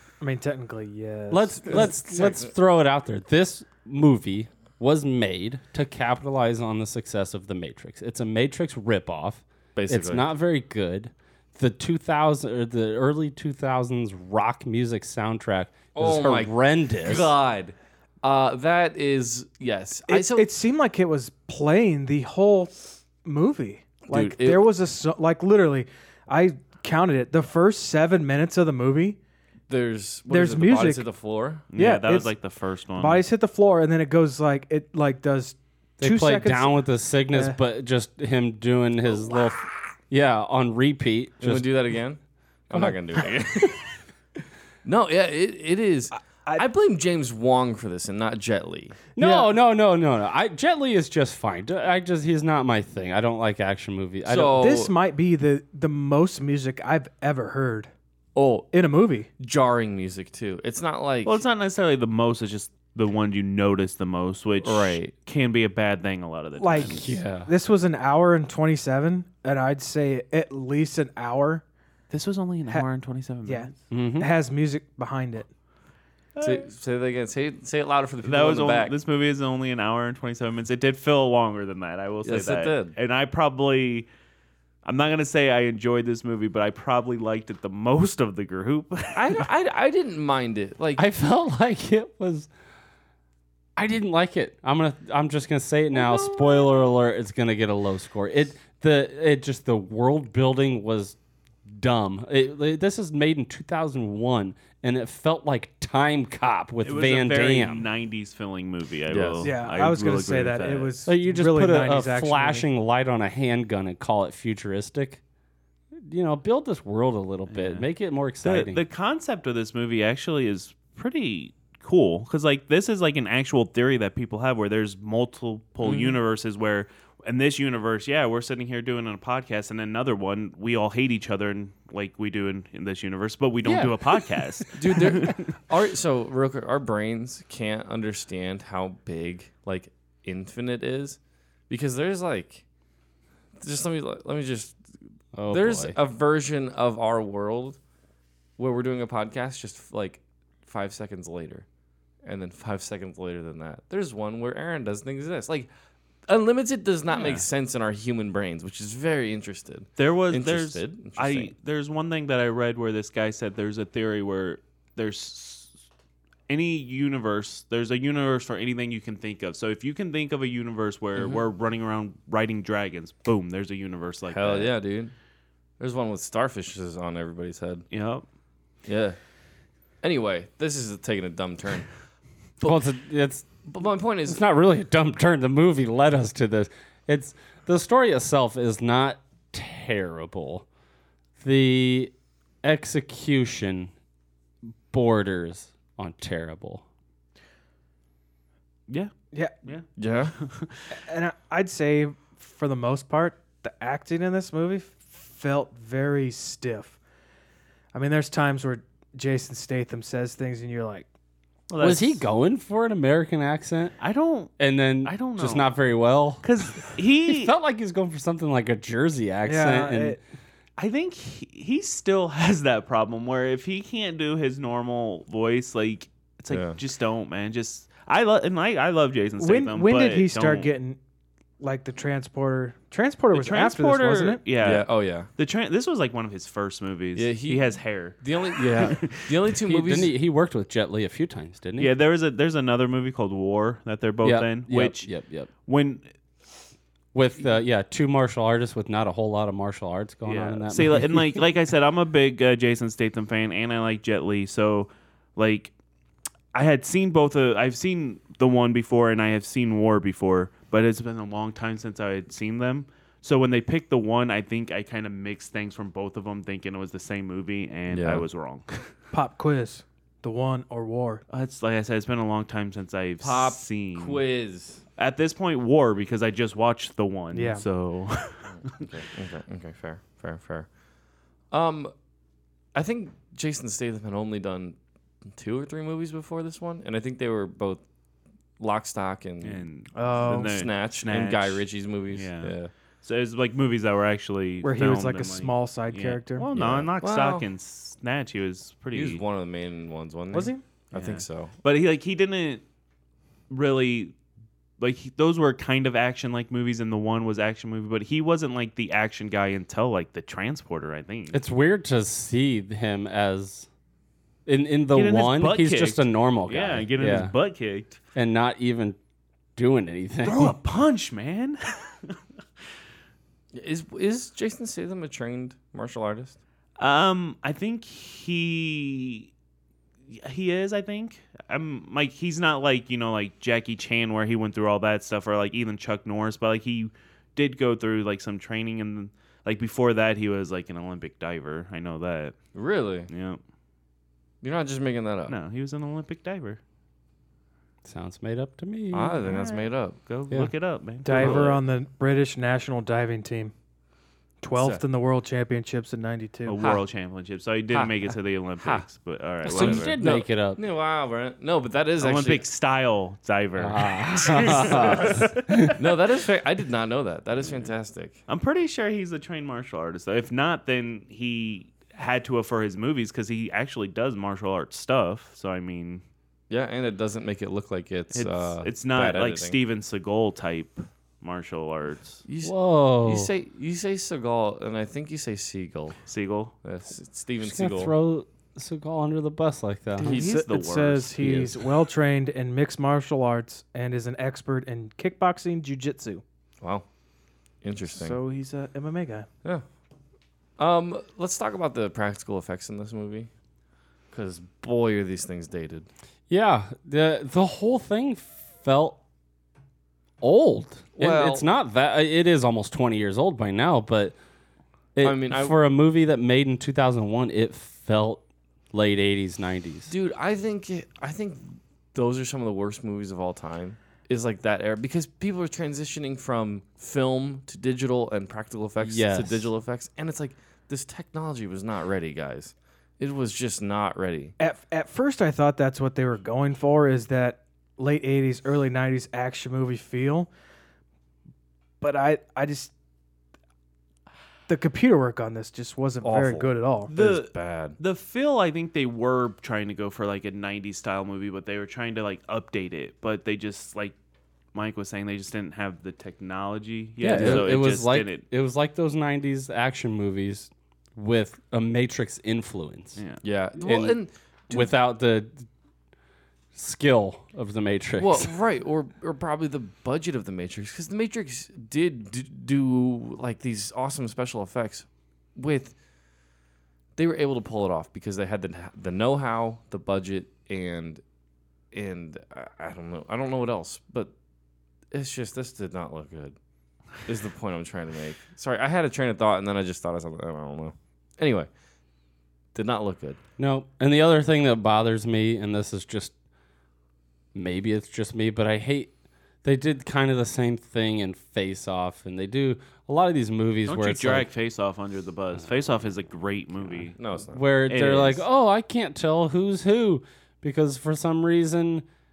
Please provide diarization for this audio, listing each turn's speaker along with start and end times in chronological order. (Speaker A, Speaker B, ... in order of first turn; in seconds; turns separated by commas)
Speaker A: 0.2-1.9, Speaker B: 1.3-17.3, Speaker C: 1.6-2.5, Speaker C: 9.8-10.3, Speaker C: 15.9-20.5, Speaker A: 20.1-29.2, Speaker C: 24.1-24.7, Speaker C: 29.7-31.6, Speaker A: 30.3-31.1, Speaker D: 31.7-33.2, Speaker A: 31.7-32.3, Speaker A: 33.0-37.6, Speaker B: 36.0-41.7, Speaker C: 41.4-43.8, Speaker C: 44.8-49.1, Speaker A: 46.1-46.6, Speaker A: 49.2-49.5, Speaker B: 49.2-54.6, Speaker C: 54.2-54.9, Speaker A: 54.6-57.9, Speaker C: 58.4-58.7, Speaker A: 58.7-59.3, Speaker C: 59.4-61.4, Speaker D: 61.2-67.2, Speaker C: 64.6-65.1, Speaker A: 66.6-71.6, Speaker B: 66.8-67.5, Speaker D: 72.1-73.8, Speaker A: 73.5-75.5, Speaker B: 73.9-74.3, Speaker D: 76.4-76.7, Speaker C: 76.4-79.0, Speaker D: 78.2-84.1, Speaker C: 82.2-83.0, Speaker D: 84.8-89.5, Speaker C: 89.1-91.0, Speaker B: 91.0-92.5, Speaker B: 93.8-101.2, Speaker C: 95.9-96.8, Speaker B: 101.7-107.9, Speaker D: 106.8-110.9, Speaker C: 109.1-109.5, Speaker A: 109.4-112.7, Speaker B: 111.1-115.2, Speaker B: 116.0-118.8, Speaker D: 117.5-117.9, Speaker D: 118.4-135.6, Speaker C: 125.8-126.2, Speaker B: 133.7-133.9, Speaker C: 134.8-142.6, Speaker C: 143.6-144.8, Speaker B: 145.4-146.0, Speaker C: 145.5-147.8, Speaker C: 148.6-151.7, Speaker C: 152.2-155.7, Speaker C: 156.3-161.5, Speaker D: 157.1-157.5, Speaker D: 160.0-165.7, Speaker D: 166.5-174.7, Speaker C: 171.2-171.4, Speaker C: 174.3-175.1, Speaker C: 175.8-177.8, Speaker D: 177.9-178.2, Speaker C: 178.9-179.2, Speaker C: 180.0-181.9, Speaker B: 182.6-183.5, Speaker C: 183.7-184.4, Speaker B: 184.3-190.7, Speaker B: 191.4-193.9, Speaker B: 194.9-196.8, Speaker C: 200.0-200.4, Speaker D: 200.4-200.9, Speaker A: 200.9-207.0, Speaker A: 207.9-211.1, Speaker D: 211.7-212.3, Speaker B: 211.8-213.9, Speaker D: 214.0-215.7, Speaker B: 214.6-220.2, Speaker D: 216.4-217.5, Speaker A: 219.5-220.2, Speaker D: 220.8-230.7, Speaker C: 226.5-226.8, Speaker A: 229.4-231.0, Speaker A: 231.6-234.4, Speaker D: 233.3-239.6, Speaker C: 234.6-235.3, Speaker C: 237.2-240.1, Speaker B: 239.7-241.9, Speaker D: 241.8-245.1, Speaker B: 244.2-245.5, Speaker D: 245.7-246.1, Speaker B: 247.1-251.4, Speaker D: 250.2-255.7, Speaker D: 256.5-268.9, Speaker C: 267.9-268.2, Speaker A: 269.1-271.2, Speaker D: 271.3-274.2, Speaker C: 273.2-274.8, Speaker D: 275.0-278.9, Speaker A: 277.3-277.6, Speaker C: 278.5-280.7, Speaker C: 281.5-281.9, Speaker C: 282.7-287.8, Speaker C: 288.6-292.7, Speaker D: 289.4-299.2, Speaker A: 289.9-290.5, Speaker A: 294.6-296.5, Speaker C: 296.5-297.5, Speaker C: 298.9-301.5, Speaker A: 300.3-300.6, Speaker D: 300.9-302.6, Speaker D: 303.5-304.1, Speaker D: 304.8-311.4, Speaker B: 311.3-313.7, Speaker B: 314.5-317.3, Speaker D: 314.9-318.0, Speaker B: 318.1-319.0, Speaker B: 319.6-320.6, Speaker D: 320.2-322.2, Speaker C: 323.5-326.4, Speaker D: 326.8-329.3, Speaker D: 330.1-342.4, Speaker C: 342.6-343.1, Speaker D: 343.1-343.4, Speaker C: 344.4-345.4, Speaker D: 345.3-346.6, Speaker B: 347.9-349.4, Speaker C: 348.9-350.0, Speaker D: 349.3-351.5, Speaker A: 351.0-353.5, Speaker C: 351.1-351.6, Speaker A: 354.4-356.6, Speaker C: 354.6-354.8, Speaker D: 356.5-360.0, Speaker C: 357.7-358.9, Speaker C: 359.4-362.4, Speaker B: 359.4-360.6, Speaker D: 362.0-365.8, Speaker B: 363.6-365.8, Speaker C: 364.4-365.1, Speaker C: 365.8-368.2, Speaker D: 368.3-376.0, Speaker C: 376.5-379.6, Speaker D: 378.1-382.2, Speaker C: 382.2-386.0, Speaker B: 382.4-383.3, Speaker D: 386.1-386.5, Speaker C: 386.6-387.9, Speaker B: 387.4-390.2, Speaker C: 390.0-390.3, Speaker A: 390.0-396.2, Speaker D: 390.0-391.4, Speaker B: 391.2-391.5, Speaker C: 396.6-396.9, Speaker C: 397.6-398.2, Speaker A: 397.9-399.3, Speaker C: 400.6-403.3, Speaker C: 404.1-405.9, Speaker B: 406.3-409.0, Speaker B: 410.2-414.2, Speaker C: 411.0-411.5, Speaker B: 414.9-419.9, Speaker C: 415.0-415.6, Speaker C: 419.9-434.4, Speaker B: 428.8-429.4, Speaker A: 434.4-440.3, Speaker A: 441.8-442.7, Speaker A: 444.5-446.9, Speaker C: 446.0-447.8, Speaker D: 446.9-453.9, Speaker D: 454.5-458.2, Speaker B: 457.0-463.0, Speaker C: 457.0-457.6, Speaker D: 463.0-463.2, Speaker C: 463.2-464.8, Speaker B: 463.6-464.0, Speaker B: 464.5-465.5, Speaker B: 466.6-468.3, Speaker C: 468.0-475.8, Speaker C: 477.0-481.0, Speaker C: 481.7-484.1, Speaker C: 484.9-486.4, Speaker C: 487.0-491.5, Speaker C: 492.5-493.2, Speaker B: 493.4-496.1, Speaker B: 497.4-498.9, Speaker B: 499.4-504.3, Speaker D: 503.7-507.0, Speaker C: 507.0-507.6, Speaker B: 507.3-511.9, Speaker D: 507.7-508.2